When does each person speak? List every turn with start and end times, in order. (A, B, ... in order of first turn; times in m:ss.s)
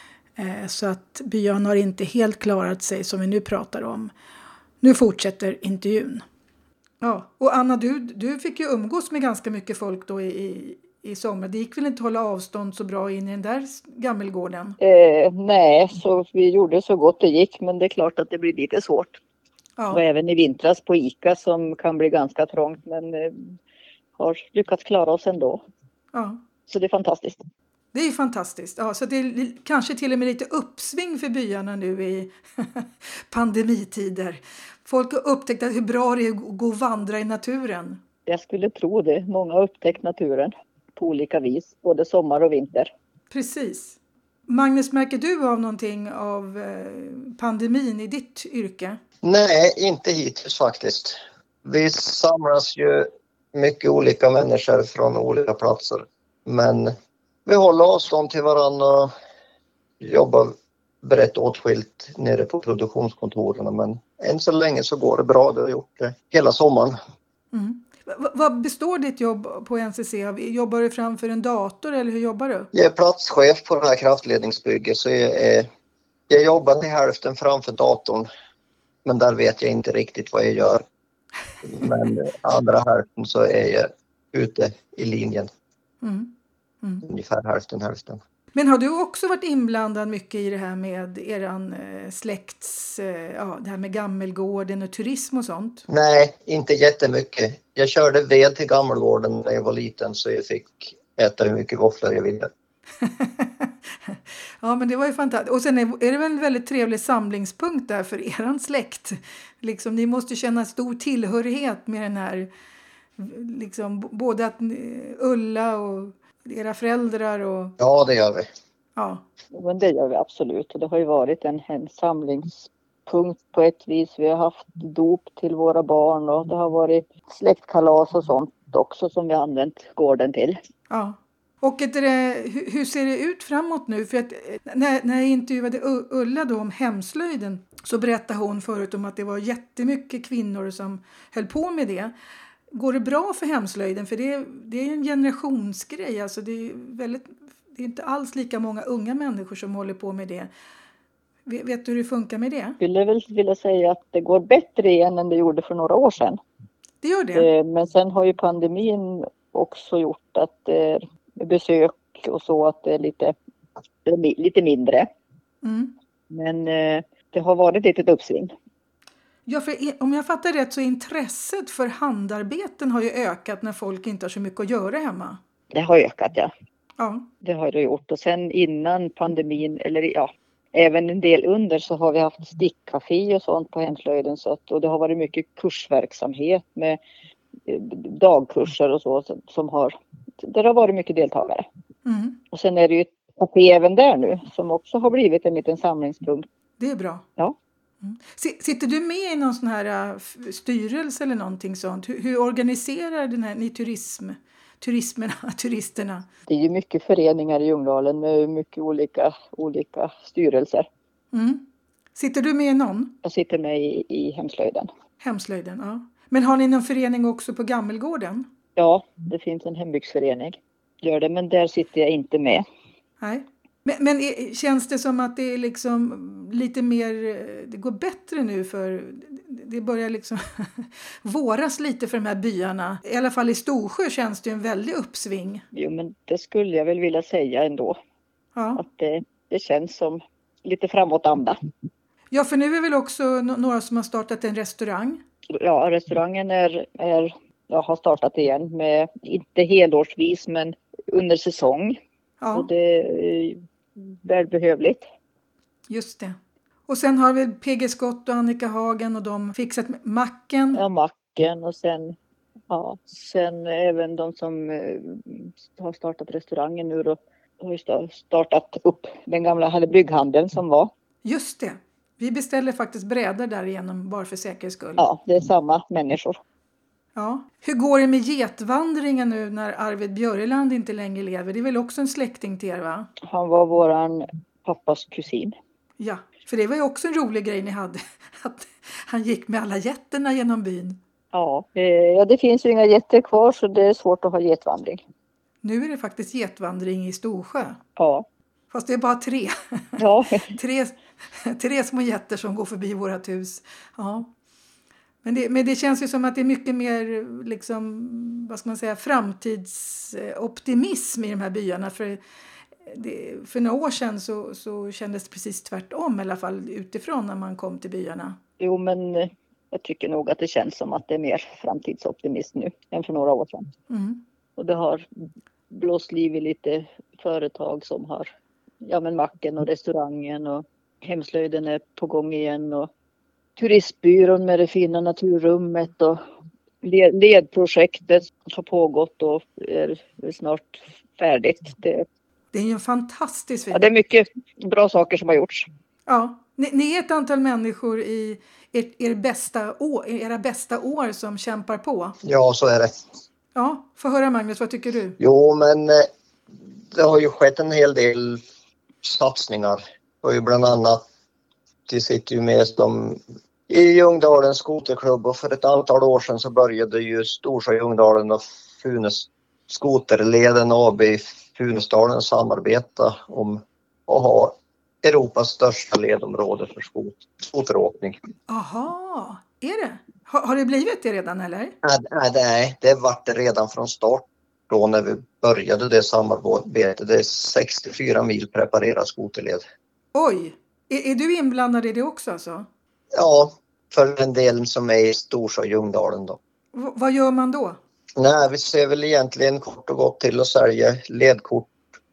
0:00.4-0:04.1 A
0:04.8-0:06.2 A
0:07.0-0:14.8 A
0:14.8-0:19.2 B
0:19.9-0:23.6 B
0:24.2-0:25.6 B
0:26.1-0:26.4 A
0:26.7-0:27.4 B
0:27.9-0:38.0 A
0:38.3-0:42.9 B
0:43.3-0:44.0 A
0:44.5-0:49.0 A
0:49.2-0:56.9 C
0:57.5-0:59.1 C
1:00.0-1:07.0 C
1:07.5-1:12.7 A
1:12.7-1:15.7 C
1:16.3-1:18.3 C
1:19.0-1:20.8 C
1:21.6-1:25.5 C
1:26.0-1:26.3 A
1:27.1-1:28.2 C
1:28.6-1:35.9 A
1:35.9-1:42.5 C
1:43.0-1:52.5 A
1:53.2-1:57.8 A
1:57.8-1:58.5 C
1:59.0-1:59.2 A
1:59.5-2:10.6 B
2:10.9-2:22.1 A
2:22.7-2:30.5 A
2:31.5-2:32.8 A
2:32.8-2:36.4 B
2:37.0-2:37.5 A
2:37.4-2:43.4 B
2:44.0-2:45.1 B
2:45.6-2:45.9 A
2:46.3-2:48.5 B
2:49.5-2:55.4 A
2:55.7-2:56.5 B
2:57.0-2:57.3 A
2:57.4-3:07.0 B
3:07.7-3:11.6 B
3:12.1-3:12.4 A
3:12.5-3:16.5 B
3:16.8-3:17.2 A
3:18.0-3:26.3 A
3:26.5-3:30.9 B
3:31.3-3:31.6 A
3:32.2-3:33.1 A
3:33.2-3:34.9 B
3:35.2-3:38.5 A
3:38.8-3:42.6 B
3:43.2-3:55.6 A
3:55.7-3:58.0 B
3:58.6-3:58.8 A
3:58.8-4:01.6 B
4:02.3-4:05.2 A
4:05.6-4:12.0 B
4:12.4-4:12.7 A
4:12.5-4:15.0 B
4:15.9-4:16.4 A
4:16.9-4:20.8 A
4:20.8-4:22.2 B
4:22.7-4:30.9 B
4:31.2-4:35.0 A
4:35.0-4:36.4 B
4:37.2-4:43.1 A
4:43.2-4:45.6 B
4:46.0-4:51.0 A
4:51.3-4:55.0 B
4:55.6-4:57.8 A
4:58.0-4:58.3 B
4:58.7-5:04.3 A
5:00.0-5:00.5 B
5:05.2-5:12.2 A
5:12.9-5:18.4 A
5:18.6-5:23.7 B
5:23.9-5:24.2 A
5:24.6-5:25.0 B
5:25.7-5:28.3 B
5:28.8-5:32.9 B
5:33.6-5:36.2 B
5:36.8-5:42.1 B
5:42.5-5:43.9 A
5:43.7-5:45.7 B
5:46.1-5:52.2 A
5:52.2-5:52.9 C
5:53.6-5:55.2 A
5:55.2-5:56.1 C
5:56.9-5:58.4 C
5:59.0-6:01.0 C
6:01.9-6:18.2 C
6:18.5-6:21.7 A
6:21.8-6:29.6 C
6:30.1-6:32.7 A
6:33.2-6:36.4 C
6:36.7-6:37.8 A
6:38.2-6:41.8 C